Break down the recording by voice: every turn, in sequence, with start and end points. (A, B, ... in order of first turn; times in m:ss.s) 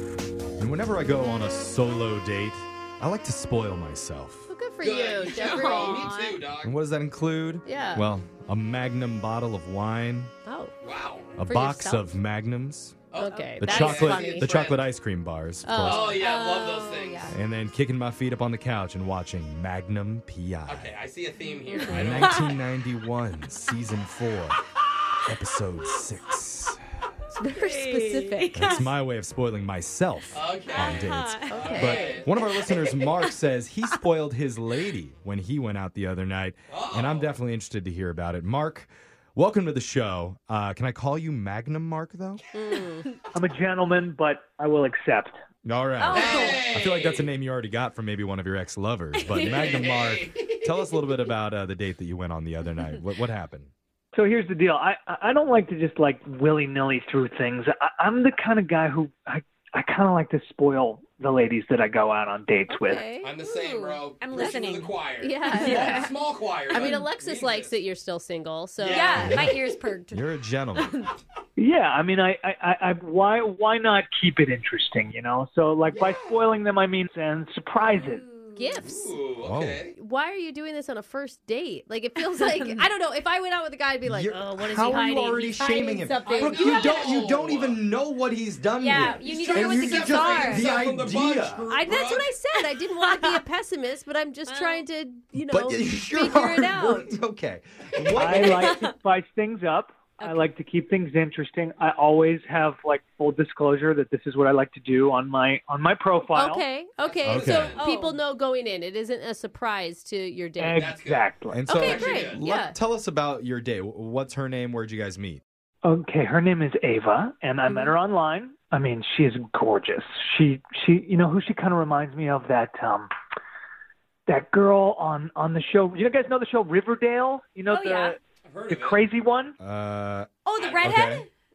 0:00.6-0:04.5 A
0:04.5-0:06.4 B
0:04.8-0:06.8 C
0:05.4-0:06.2 D
0:06.6-0:10.3 A
0:07.7-0:08.1 B
0:10.5-0:10.7 B
0:10.8-0:11.3 C
0:11.4-0:13.0 A
0:11.4-0:12.2 B
0:13.1-0:14.8 C
0:13.2-0:14.6 B
0:13.6-0:16.2 A
0:15.6-0:16.2 B
0:15.8-0:17.3 C
0:16.2-0:17.4 D
0:17.3-0:21.0 A
0:20.7-0:22.5 C
0:21.6-0:22.5 D
0:21.9-0:24.6 A
0:25.2-0:26.8 A
0:27.4-0:28.8 B
0:27.5-0:28.9 D
0:28.6-0:42.4 A
0:30.3-0:32.3 C
0:30.7-0:32.3 D
0:31.5-0:32.2 B
0:36.7-0:37.3 C
0:42.5-0:43.1 B
0:43.3-0:45.4 E
0:45.6-0:53.7 A
0:46.0-0:46.7 D
0:46.1-0:47.3 C
0:49.2-0:49.8 D
0:49.4-0:50.7 C
0:54.1-1:03.1 E
1:02.7-1:03.3 B
1:03.2-1:07.8 C
1:03.4-1:05.0 D
1:05.2-1:06.1 B
1:05.5-1:06.0 D
1:06.7-1:09.2 B
1:08.8-1:09.6 C
1:08.9-1:11.1 D
1:09.2-1:09.6 A
1:10.1-1:11.0 A
1:11.6-1:18.2 E
1:17.9-1:18.7 D
1:18.6-1:19.2 B
1:18.8-1:20.0 C
1:19.4-1:19.8 A
1:20.0-1:27.0 B
1:22.3-1:22.8 D
1:24.0-1:31.6 A
1:26.3-1:27.2 D
1:26.4-1:27.8 C
1:28.8-1:30.8 D
1:29.0-1:32.3 C
1:31.7-1:37.1 B
1:33.0-1:33.4 D
1:34.5-1:34.8 D
1:35.4-1:38.7 A
1:38.2-1:46.6 E
1:38.2-1:39.0 D
1:40.2-1:40.4 D
1:46.4-1:50.9 B
1:47.0-1:47.9 C
1:47.2-1:47.7 A
1:47.8-1:48.2 D
1:50.6-1:51.7 E
1:50.8-1:52.4 C
1:51.5-1:55.4 A
1:51.7-1:52.8 B
1:55.8-2:03.1 E
2:04.3-2:09.6 E
2:07.7-2:08.2 D
2:08.5-2:09.0 C
2:09.6-2:11.2 A
2:10.5-2:11.3 D
2:10.6-2:11.0 C